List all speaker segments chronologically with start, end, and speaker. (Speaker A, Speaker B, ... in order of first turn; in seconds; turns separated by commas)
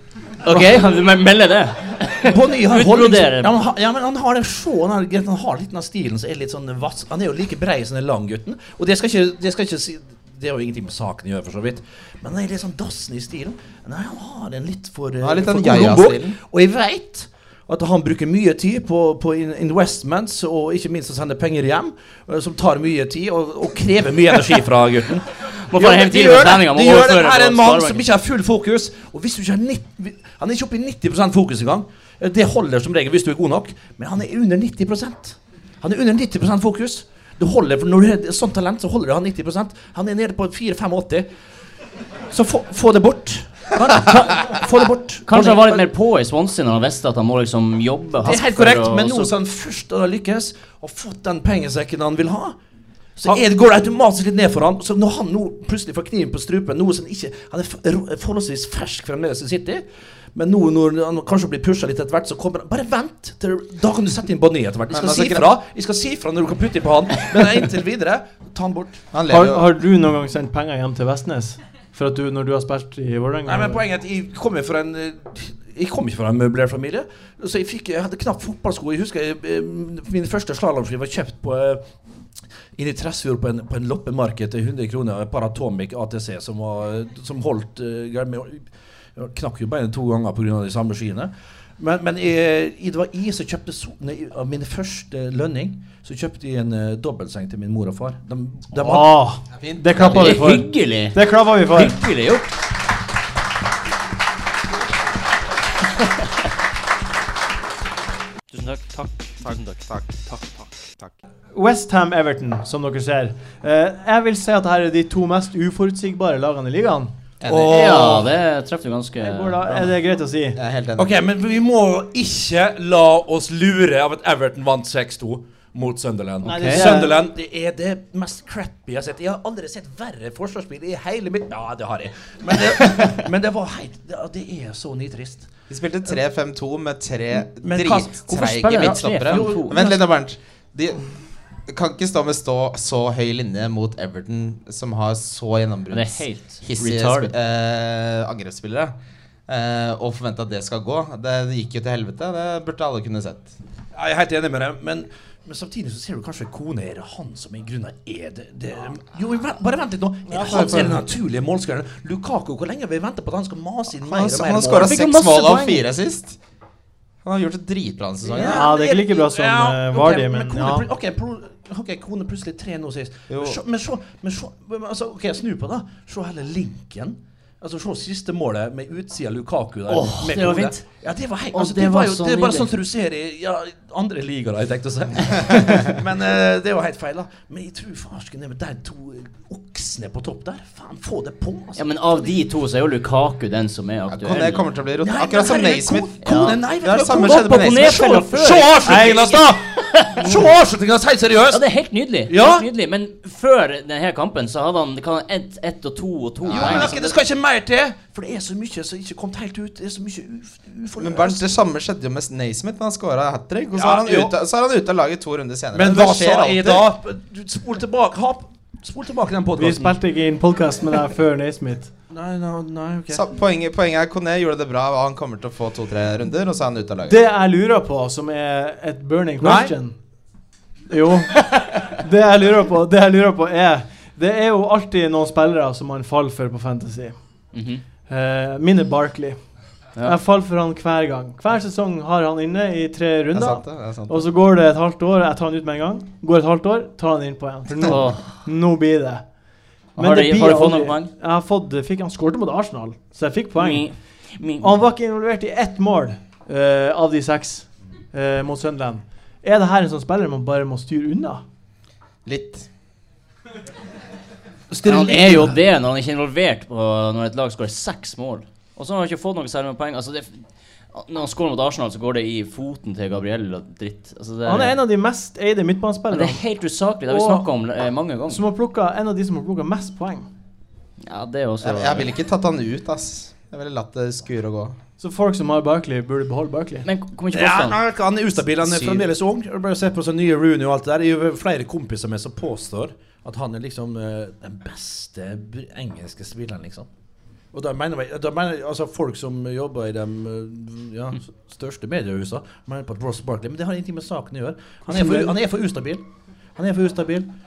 Speaker A: 0.4-3.5, Speaker B: 2.2-41.3, Speaker C: 15.2-16.4, Speaker A: 25.6-28.1, Speaker B: 42.3-45.9, Speaker A: 45.3-49.3, Speaker B: 48.2-52.6, Speaker B: 53.2-69.0, Speaker C: 64.9-65.6, Speaker C: 69.1-69.7, Speaker D: 69.3-73.8, Speaker B: 73.5-81.9, Speaker B: 82.8-99.2, Speaker D: 98.8-102.0, Speaker C: 99.5-100.5, Speaker A: 100.0-102.6, Speaker D: 111.5-117.1, Speaker C: 117.4-118.0, Speaker B: 117.5-118.3, Speaker A: 117.7-120.0, Speaker D: 119.2-120.6, Speaker C: 120.5-121.2, Speaker B: 121.0-135.5, Speaker A: 126.4-126.9, Speaker D: 126.4-127.2, Speaker C: 135.7-141.1, Speaker B: 137.6-140.0, Speaker A: 138.4-139.8, Speaker C: 141.7-148.9, Speaker A: 145.9-147.3, Speaker C: 149.5-153.5, Speaker B: 153.9-164.9, Speaker D: 160.3-161.0, Speaker C: 160.5-160.9, Speaker C: 164.0-166.4, Speaker A: 164.8-165.8, Speaker C: 167.2-168.7, Speaker B: 168.3-191.9, Speaker D: 168.5-170.9, Speaker C: 173.3-173.6, Speaker A: 179.9-180.8, Speaker A: 181.5-182.7, Speaker A: 191.8-194.7, Speaker C: 194.1-196.2, Speaker B: 195.0-201.6, Speaker A: 196.2-200.5, Speaker C: 196.7-198.1, Speaker A: 201.5-207.2, Speaker B: 202.3-202.7, Speaker C: 206.5-206.9, Speaker B: 206.5-211.4, Speaker C: 211.0-216.9, Speaker B: 213.7-214.3, Speaker B: 215.7-219.9, Speaker D: 219.6-221.9, Speaker B: 222.1-223.2, Speaker C: 223.1-227.2, Speaker D: 227.1-230.0, Speaker B: 229.4-229.7, Speaker D: 230.9-237.2, Speaker A: 237.5-237.8, Speaker D: 238.1-239.4, Speaker D: 240.0-249.2, Speaker C: 243.3-244.3, Speaker A: 247.8-248.4, Speaker A: 250.0-251.1, Speaker D: 250.0-253.9, Speaker A: 253.6-254.8, Speaker D: 254.6-261.4, Speaker C: 262.2-262.7, Speaker B: 264.7-265.6, Speaker A: 264.9-274.8, Speaker D: 274.4-276.4, Speaker A: 276.1-278.4, Speaker D: 277.1-277.5, Speaker D: 278.3-280.3, Speaker A: 281.0-282.1, Speaker C: 281.6-284.8, Speaker D: 285.0-286.9, Speaker A: 286.9-287.8, Speaker B: 287.3-296.9, Speaker C: 288.6-289.1, Speaker B: 297.5-306.0, Speaker D: 304.9-305.4, Speaker B: 306.6-307.3